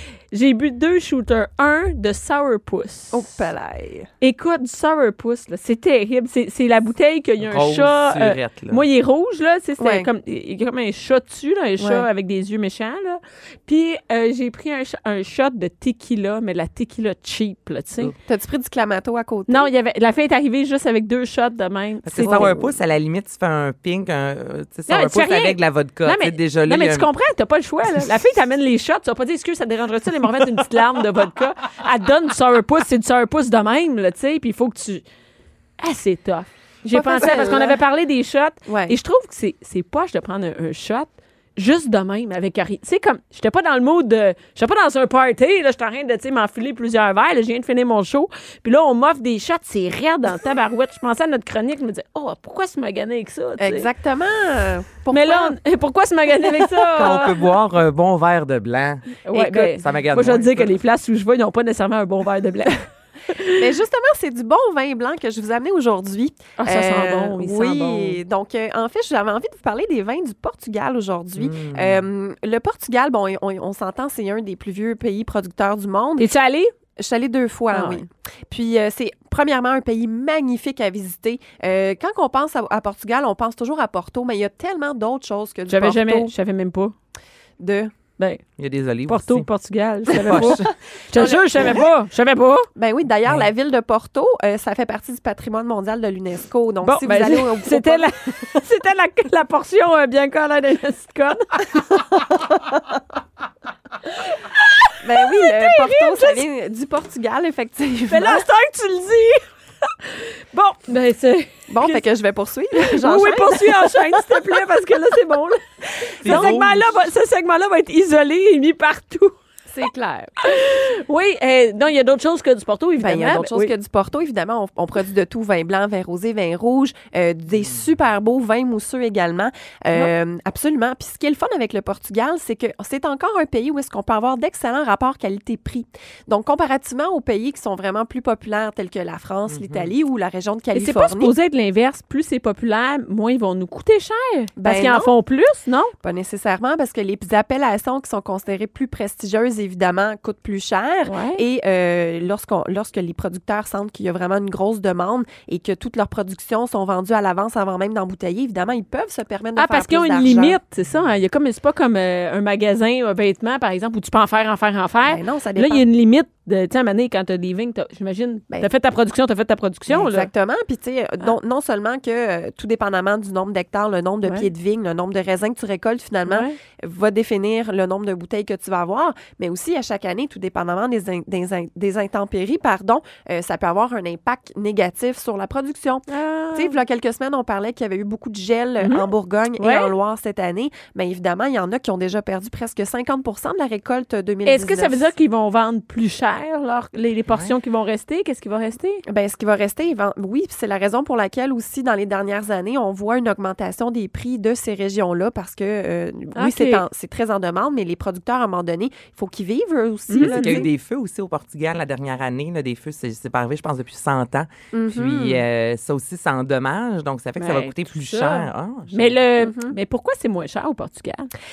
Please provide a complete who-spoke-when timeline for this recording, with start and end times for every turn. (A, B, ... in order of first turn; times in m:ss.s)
0:00.3-0:03.2 A
0:03.1-0:04.1 B
0:04.2-0:18.1 A
0:07.4-0:08.8 C
0:09.8-0:10.1 B
0:11.8-0:12.1 B
0:18.3-0:19.7 B
0:19.5-0:22.7 A
0:22.0-0:27.1 C
0:24.9-0:35.0 A
0:35.8-0:53.9 A
0:36.9-0:37.8 B
0:38.7-0:39.0 B
0:53.6-0:55.6 B
0:55.1-0:57.3 A
0:57.0-1:00.7 C
0:59.2-1:03.6 A
1:03.6-1:16.3 B
1:06.6-1:08.2 A
1:11.4-1:12.1 C
1:16.2-1:16.7 A
1:17.0-1:26.3 B
1:17.7-1:18.0 A
1:25.7-1:26.9 A
1:27.6-1:27.9 B
1:28.6-1:29.5 C
1:29.1-1:32.7 A
1:30.1-1:30.7 C
1:30.2-1:31.9 B
1:32.8-1:38.1 B
1:36.8-1:41.6 A
1:44.2-1:46.4 A
1:45.0-1:48.4 B
1:48.1-1:52.0 A
1:51.7-1:54.3 B
1:52.8-1:59.4 A
1:56.2-1:57.0 C
1:56.2-1:56.6 B
1:59.7-2:00.4 B
2:00.4-2:03.7 A
2:03.0-2:21.3 B
2:19.5-2:19.9 C
2:20.7-2:25.9 A
2:24.6-2:25.1 B
2:26.0-2:40.6 B
2:31.1-2:31.4 A
2:39.6-2:50.3 A
2:45.0-2:45.8 B
2:49.9-3:15.1 B
2:56.3-2:56.6 A
3:06.1-3:06.8 A
3:08.8-3:09.9 A
3:14.5-3:19.0 A
3:19.1-3:30.7 B
3:26.4-3:26.8 A
3:30.1-3:30.7 A
3:30.2-3:39.2 C
3:34.7-3:35.4 B
3:37.4-3:41.3 A
3:39.4-3:39.8 B